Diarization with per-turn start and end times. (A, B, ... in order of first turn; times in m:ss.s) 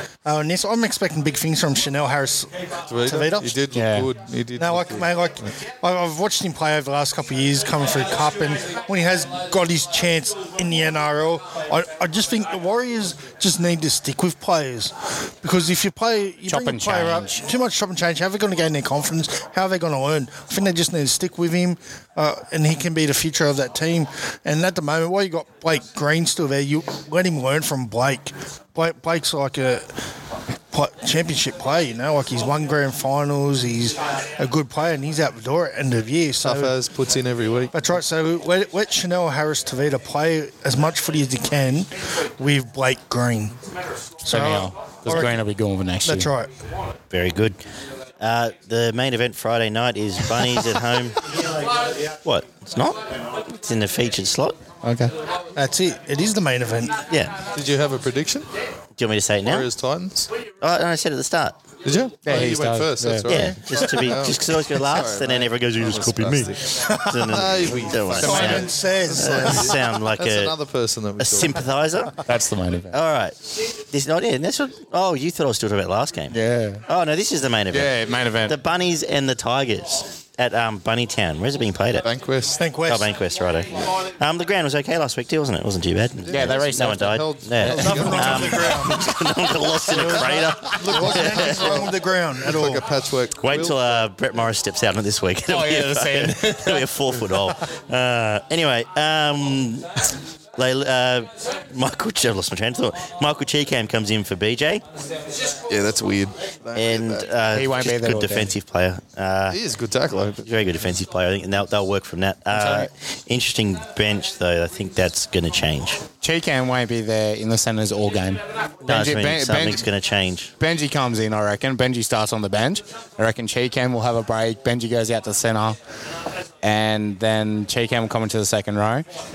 0:00.2-0:02.5 A
0:02.9-0:05.1 B
0:03.0-0:03.5 A
0:03.7-0:04.1 C
0:04.6-0:30.0 A
0:16.5-0:17.4 C
0:30.7-0:36.7 A
0:36.4-0:37.7 B
0:37.7-0:43.6 A
0:44.2-0:45.4 A
0:44.3-0:46.3 C
0:46.0-0:46.5 A
0:47.1-0:47.6 D
0:48.2-0:51.2 D
0:52.2-0:54.6 D
0:54.8-0:55.1 C
0:55.6-0:57.0 A
0:57.1-0:57.4 D
0:57.5-0:58.5 B
0:59.0-0:59.7 D
0:59.4-1:00.3 B
1:00.6-1:01.6 D
1:01.8-1:11.6 B
1:02.2-1:03.3 C
1:03.3-1:10.5 D
1:03.3-1:03.5 A
1:06.8-1:07.4 A
1:08.1-1:09.8 A
1:08.2-1:08.6 C
1:11.2-1:12.2 D
1:12.2-1:13.0 C
1:12.9-1:16.3 D
1:16.3-1:16.8 C
1:16.9-1:22.1 D
1:17.7-1:18.5 C
1:22.0-1:22.6 B
1:22.6-1:23.1 A
1:22.8-1:31.8 D
1:26.2-1:28.9 B
1:26.3-1:28.4 C
1:27.8-1:29.1 A
1:29.8-1:32.8 A
1:30.8-1:34.0 B
1:33.4-1:44.8 D
1:35.5-1:37.5 C
1:45.7-1:47.3 B
1:46.7-1:49.6 D
1:47.5-1:48.5 C
1:49.5-1:50.5 B
1:50.4-1:56.0 D
1:52.5-1:52.9 C
1:56.2-1:59.8 C
1:58.8-2:00.5 D
2:00.6-2:05.8 C
2:06.6-2:09.0 C